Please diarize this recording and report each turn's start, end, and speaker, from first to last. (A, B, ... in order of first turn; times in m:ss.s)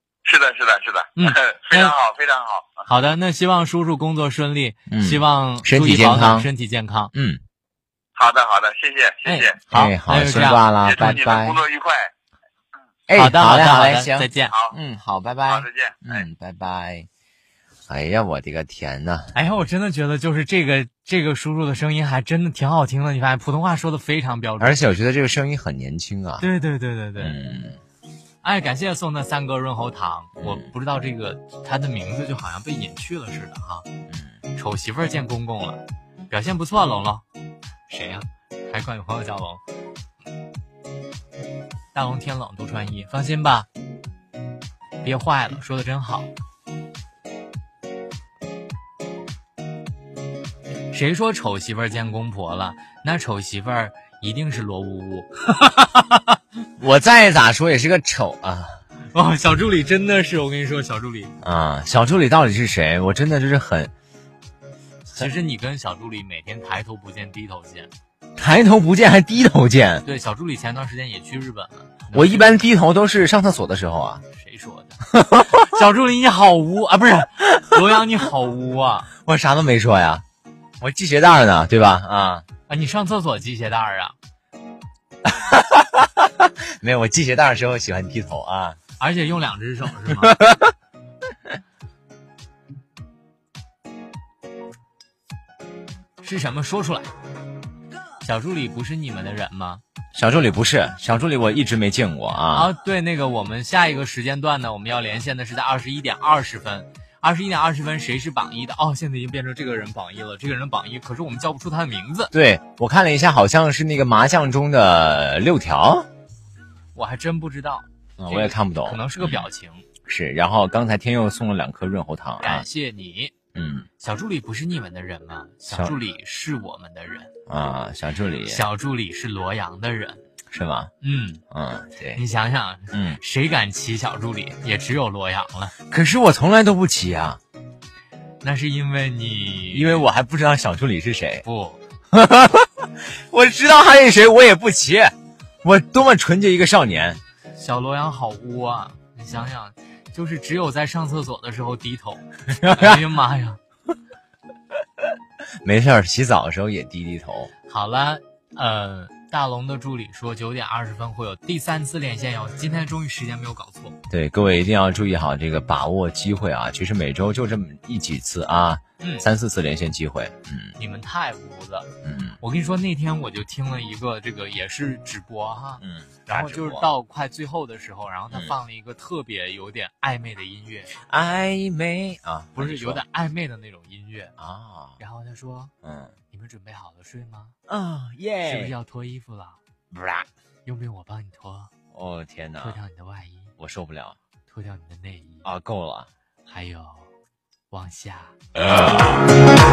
0:00.2-0:02.8 A
0:01.2-0:01.9 B
0:02.9-0:07.1 B
0:04.9-0:06.5 C
0:07.1-0:07.4 C
0:08.2-0:09.6 A
0:09.2-0:11.6 C
0:09.7-0:10.6 B
0:10.8-0:12.1 A
0:13.1-0:17.1 C
0:13.1-0:14.5 B
0:14.5-0:14.8 A
0:15.5-0:16.2 A
0:17.9-0:19.3 C
0:19.3-0:24.8 B
0:24.6-0:26.4 C
0:26.4-0:27.4 B
0:27.2-0:27.8 C
0:28.4-0:33.8 B
0:30.4-0:30.6 C
0:34.5-0:37.2 B
0:37.9-0:39.6 B
0:41.9-0:43.7 B
0:45.0-0:46.3 B
0:50.9-0:56.4 B
0:56.8-0:58.8 C
0:59.1-1:01.3 B
1:01.4-1:03.9 C
1:05.1-1:07.9 B
1:08.4-1:10.0 C
1:10.0-1:12.5 B
1:12.1-1:14.2 C
1:14.3-1:19.1 B
1:15.1-1:15.7 C
1:19.2-1:20.2 C
1:20.8-1:22.4 C
1:22.7-1:24.2 B
1:25.2-1:28.8 C
1:29.0-1:30.4 B
1:30.1-1:30.7 C
1:36.2-1:37.1 B
1:38.2-1:39.8 B
1:40.1-1:42.7 C
1:42.5-1:52.3 B
1:52.3-1:56.1 C
1:56.9-1:59.8 B
1:58.2-1:59.5 C
2:00.0-2:02.6 C
2:02.4-2:03.3 B
2:03.5-2:03.9 C
2:04.0-2:07.3 B
2:05.7-2:06.0 C
2:07.5-2:08.6 C
2:08.4-2:10.2 B
2:10.5-2:10.9 C
2:11.0-2:11.4 B
2:11.5-2:12.2 C
2:12.1-2:15.7 B
2:12.9-2:13.2 C
2:15.8-2:17.4 C
2:18.4-2:20.1 B
2:19.7-2:21.4 C
2:21.4-2:21.8 B
2:22.1-2:27.2 C
2:27.6-2:33.6 B
2:32.5-2:33.0 C
2:35.6-2:37.5 C
2:37.7-2:44.0 B
2:44.1-2:50.8 C
2:49.0-2:49.2 B
2:50.8-3:01.0 B
2:52.0-2:52.4 C
2:55.8-2:56.9 C
3:01.0-3:03.0 C
3:02.6-3:04.3 B
3:04.4-3:05.0 C
3:05.0-3:05.7 B
3:05.8-3:06.1 C
3:06.3-3:07.5 B
3:07.7-3:08.7 C
3:08.4-3:09.6 B
3:09.9-3:10.3 C
3:10.6-3:11.7 B
3:11.9-3:12.8 C
3:12.6-3:13.5 B
3:13.6-3:14.2 C
3:14.5-3:15.4 B
3:15.4-3:16.1 C
3:16.5-3:17.1 B
3:17.7-3:18.3 B
3:18.6-3:19.2 C